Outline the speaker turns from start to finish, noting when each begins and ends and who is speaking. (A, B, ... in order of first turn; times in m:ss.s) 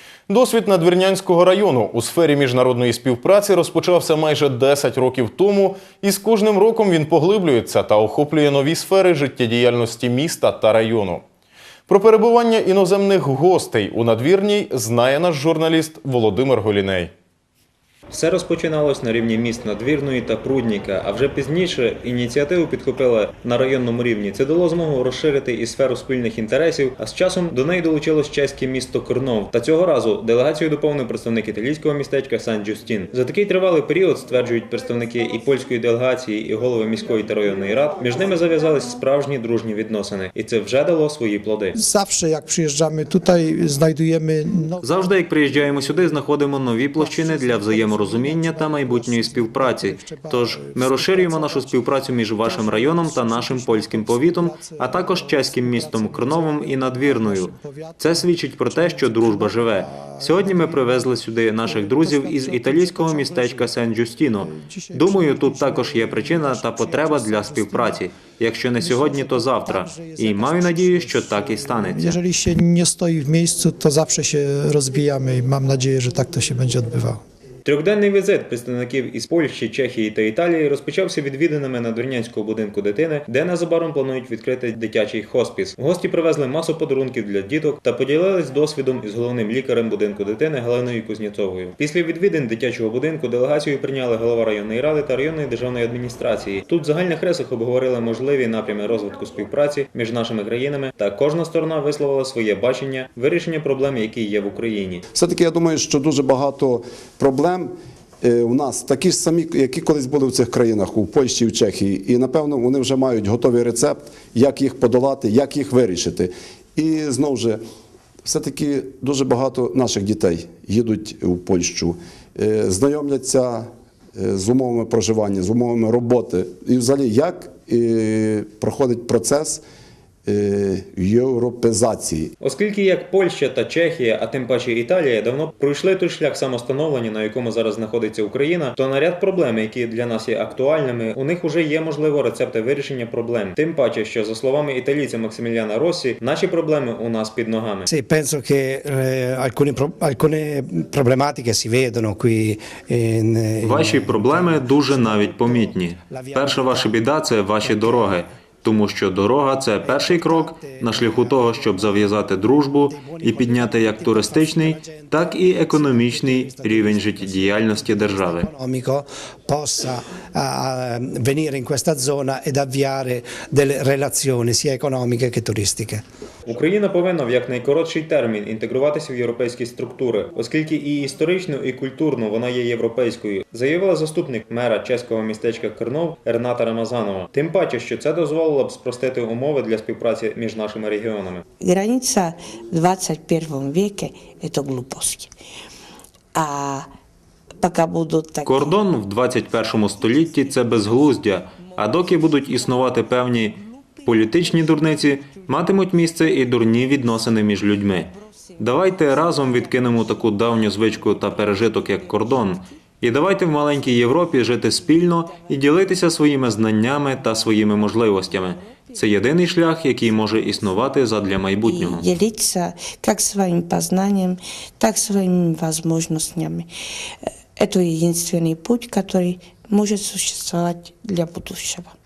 0:00.3-0:11.2 A
0:11.9-0:17.1 A
0:18.1-0:41.8 B
0:41.8-0:45.1 C
0:44.8-1:12.2 B
0:46.9-0:51.9 C
0:52.4-1:03.7 C
1:04.3-1:08.0 C
1:08.7-1:17.2 C
1:17.6-1:45.0 B
1:45.1-1:57.6 D
1:58.2-2:09.6 D
2:10.2-2:12.3 D
2:12.4-2:27.9 B
2:27.9-2:38.2 E
2:33.6-2:48.5 B
2:39.8-2:56.0 E
2:56.4-3:11.4 B
3:11.6-3:15.3 F
3:16.3-3:16.9 F
3:17.6-3:18.8 F
3:18.4-3:42.1 B
3:19.8-3:27.4 F
3:28.0-3:32.7 F
3:33.7-3:34.0 F
3:34.9-3:35.8 F
3:38.2-3:39.1 F
3:40.1-3:40.9 F
3:41.6-3:46.7 F
3:47.6-3:51.9 F